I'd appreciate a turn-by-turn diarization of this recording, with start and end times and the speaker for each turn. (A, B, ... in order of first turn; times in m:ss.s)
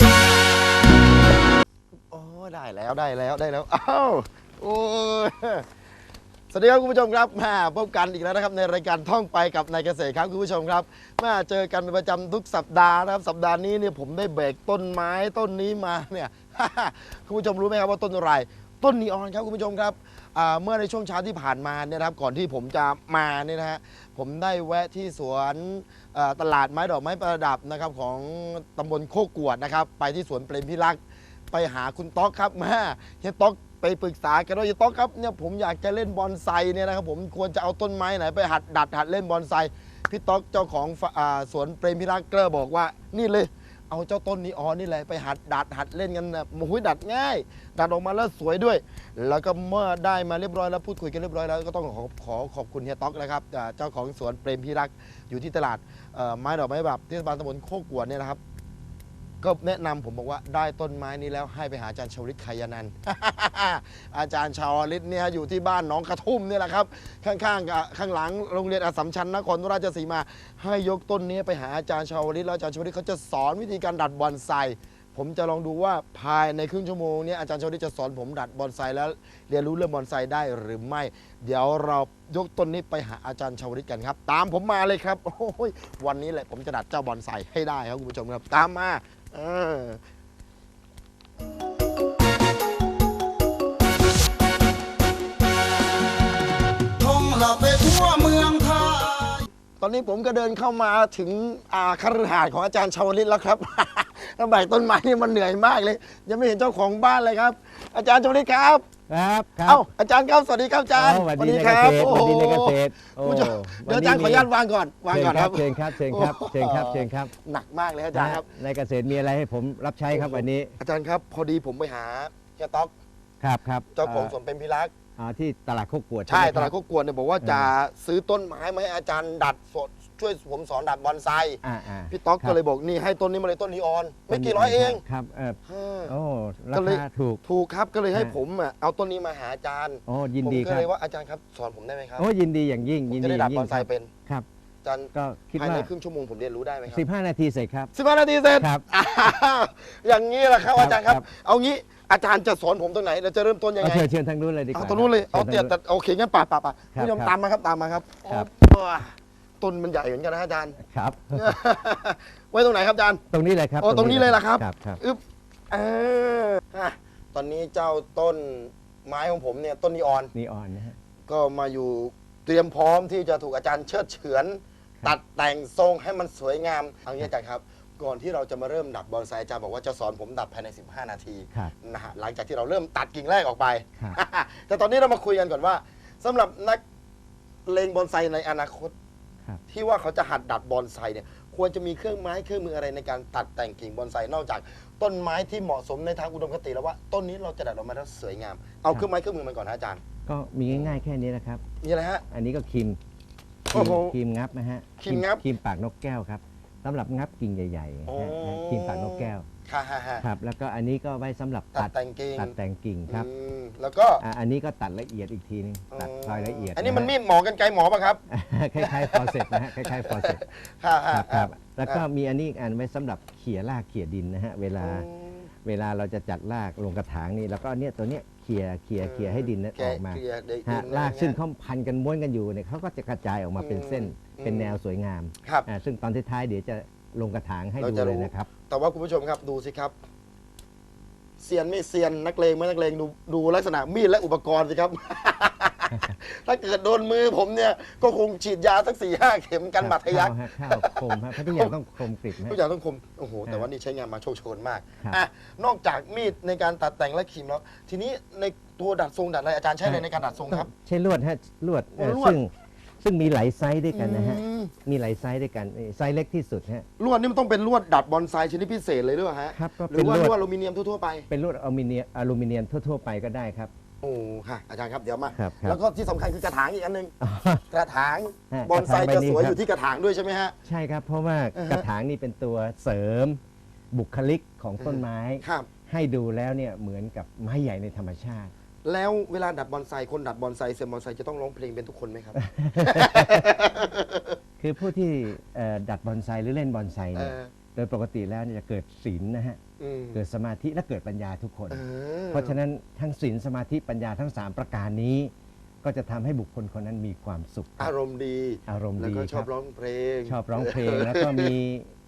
0:02.1-0:05.6 A
0:06.5-0:31.0 A
0:31.5-0:58.4 A
0:59.4-1:30.0 A
1:37.0-1:39.5 B
1:39.8-1:48.8 A
1:49.1-1:49.8 C
1:49.6-1:58.5 A
1:50.9-1:54.5 C
1:55.1-1:57.3 C
1:58.1-2:00.7 C
2:00.1-2:02.9 A
2:03.4-2:04.3 C
2:03.9-2:04.9 A
2:05.2-2:06.7 C
2:06.3-2:15.0 A
2:07.4-2:07.7 C
2:11.6-2:12.6 C
2:14.3-2:17.4 C
2:15.7-2:16.1 A
2:16.7-2:22.2 A
2:20.1-2:20.9 C
2:22.2-2:24.5 C
2:23.1-2:24.1 A
2:24.8-2:27.0 A
2:25.1-2:25.9 C
2:26.8-2:27.9 C
2:27.9-2:34.1 A
2:28.6-2:28.8 C
2:30.6-2:31.2 C
2:33.8-2:35.8 C
2:34.7-2:40.8 A
2:36.9-2:37.3 C
2:40.8-2:41.5 C
2:41.3-2:43.2 A
2:43.3-2:45.0 C
2:43.8-2:50.3 A
2:50.3-2:51.0 C
2:51.3-3:06.8 A
3:07.7-3:08.9 A
3:09.7-3:20.0 A
3:20.2-3:21.6 C
3:20.7-3:21.0 A
3:21.8-3:22.2 A
3:22.3-3:23.0 C
3:23.7-3:24.2 A
3:23.7-3:29.5 C
3:25.0-3:25.4 A
3:28.1-3:30.3 A
3:30.2-3:33.3 C
3:31.7-3:32.5 A
3:33.1-3:34.2 A
3:34.2-3:37.1 C
3:35.9-3:38.2 A
3:38.3-3:40.4 C
3:38.8-3:42.0 A
3:41.1-3:45.1 C
3:44.8-3:45.5 A
3:45.6-3:58.5 C
3:49.0-3:51.4 A
3:53.6-3:54.8 A
3:57.8-3:59.9 A
4:01.4-4:11.7 A
4:09.8-4:12.6 C
4:12.4-4:20.7 A
4:19.8-4:26.9 C
4:22.0-4:22.4 A
4:23.9-4:24.7 A
4:27.0-4:31.3 A
4:29.5-4:30.4 C
4:31.3-4:33.7 C
4:34.0-4:37.1 A
4:35.4-4:35.8 C
4:37.2-4:37.6 C
4:37.6-4:40.6 A
4:38.5-4:39.6 C
4:40.6-4:43.4 C
4:41.5-4:41.9 A
4:43.9-4:48.5 C
4:44.8-4:45.7 A
4:48.8-4:54.3 A
4:52.4-4:53.4 C
4:54.6-4:59.6 C
4:57.1-4:57.5 A
4:59.8-5:00.2 A
5:00.1-5:05.3 C
5:01.7-5:02.5 A
5:05.8-5:07.9 C
5:07.8-5:11.5 A
5:08.7-5:09.5 C
5:10.2-5:11.9 C